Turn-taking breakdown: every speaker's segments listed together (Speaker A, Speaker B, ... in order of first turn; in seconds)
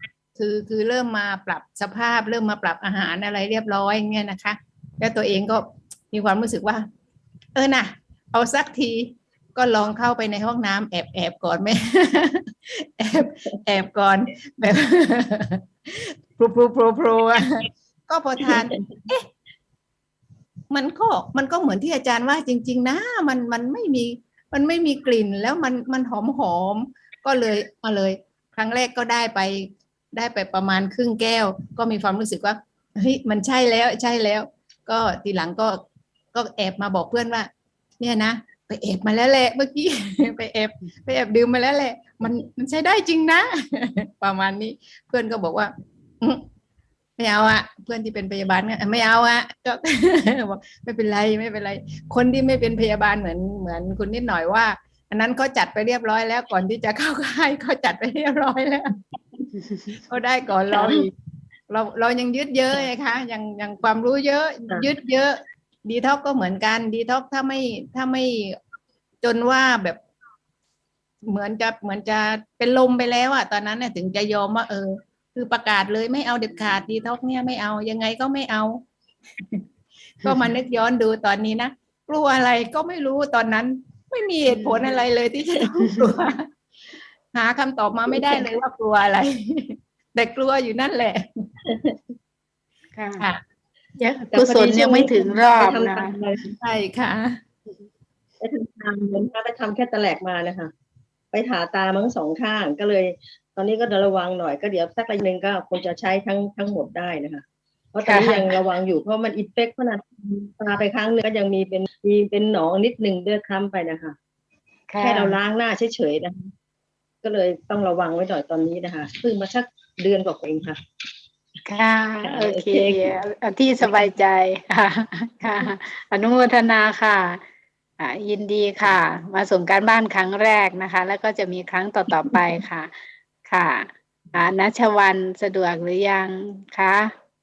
Speaker A: 0.3-6.8, 7.5-19.3, 20.7-35.8, 36.3-37.5, 38.0-45.7, 47.2-58.9, 60.1-61.1, 61.7-68.6, 69.2-70.0, 71.2-78.8, 79.4-79.6, 80.2-86.5, 87.3-91.5, 96.4-97.4
Speaker B: 18.4-18.7, 60.7-61.0, 88.1-88.4, 91.7-92.1, 94.3-96.5, 98.4-100.7, 101.3-114.2, 115.0-116.5, 117.2-120.8, 122.2-123.2
Speaker C: 59.6-59.9, 80.2-80.5, 84.5-85.0, 85.8-86.3, 93.0-93.3, 94.0-96.1, 108.0-108.6, 114.9-115.4, 121.7-127.4, 128.0-132.9, 133.4-137.1